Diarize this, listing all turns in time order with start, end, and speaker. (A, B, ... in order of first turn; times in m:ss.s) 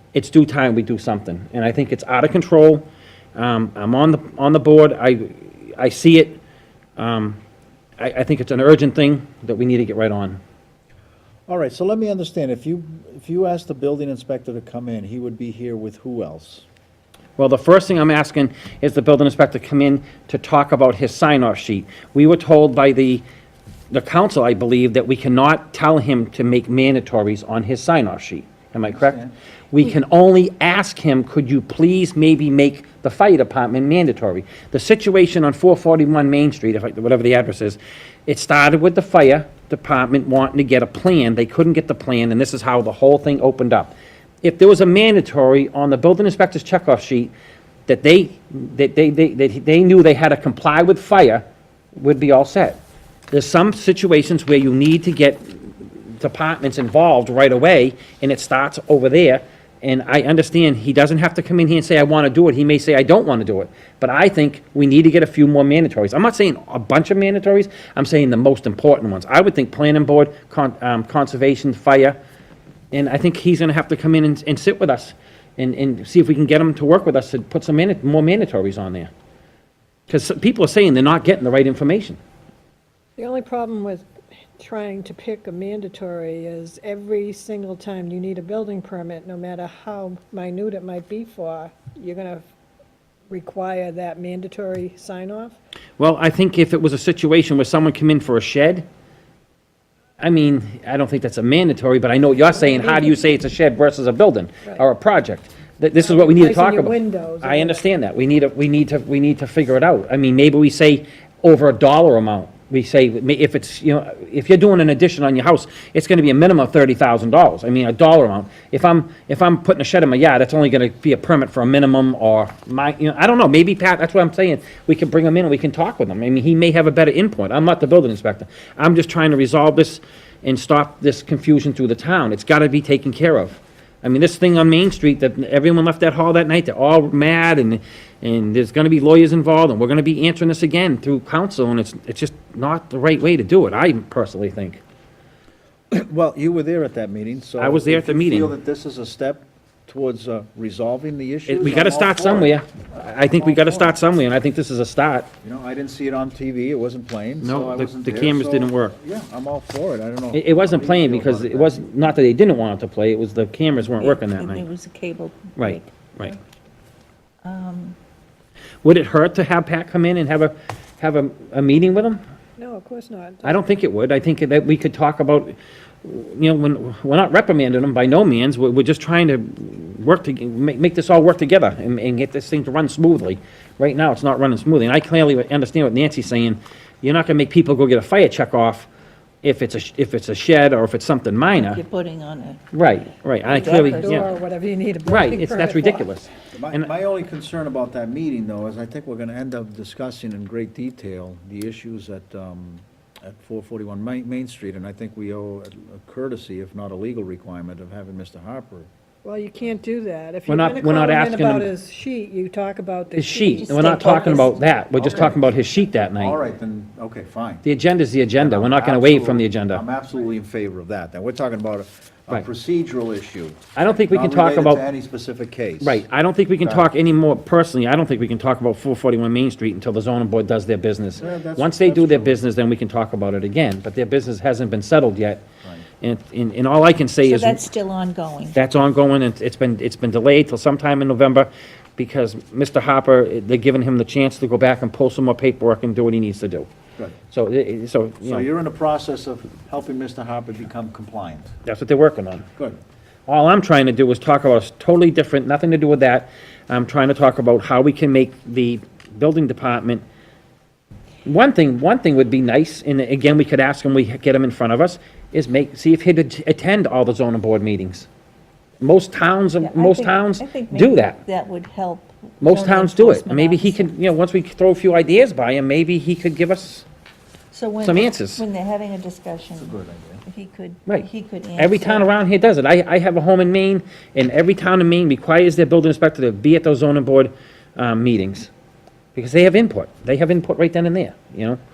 0:00.1-0:06.4 A
0:07.0-0:07.4 A
0:08.0-0:10.4 A
0:11.5-0:16.6 B
0:17.4-0:23.2 A
0:23.9-0:29.2 A
0:28.9-0:29.3 B
0:29.7-0:47.3 A
0:47.9-0:52.8 A
0:53.3-1:12.2 A
1:12.9-1:19.1 A
1:20.1-1:22.2 A
1:23.2-1:24.1 C
1:24.6-1:32.4 C
1:33.3-1:35.6 C
1:36.0-1:38.8 A
1:40.2-2:24.8 A
1:42.7-1:43.1 C
1:46.0-1:47.8 C
2:25.9-2:34.0 B
2:27.6-2:28.6 A
2:31.5-2:35.3 A
2:35.4-2:41.8 B
2:37.4-2:39.0 A
2:40.3-2:44.7 A
2:44.0-2:45.9 D
2:45.6-2:46.4 A
2:47.4-2:48.0 D
2:48.8-2:52.2 A
2:52.6-2:53.7 C
2:53.4-3:08.9 A
3:09.4-3:11.8 A
3:11.5-3:12.6 D
3:12.7-3:14.3 A
3:13.5-3:14.3 D
3:13.6-3:16.1 C
3:15.1-3:16.9 A
3:16.5-3:28.9 B
3:29.2-3:34.5 C
3:30.5-3:31.7 A
3:33.2-3:36.4 A
3:33.6-3:34.6 D
3:34.9-3:35.6 B
3:36.1-3:37.6 B
3:37.6-3:39.8 A
3:38.4-3:46.0 B
3:43.8-3:44.8 A
3:45.8-3:55.4 A
3:46.6-3:46.9 B
3:51.2-3:52.4 B
3:56.0-3:57.6 A
3:57.2-3:58.6 D
3:58.6-4:06.7 A
4:07.3-4:08.5 A
4:08.2-4:11.5 B
4:11.7-4:12.5 A
4:13.3-4:20.0 A
4:21.2-4:28.1 A
4:28.8-4:31.2 A
4:29.6-4:33.9 D
4:32.4-4:36.9 A
4:37.5-4:42.1 D
4:37.8-4:38.4 A
4:39.6-4:40.2 B
4:40.9-4:48.5 A
4:49.2-4:51.6 A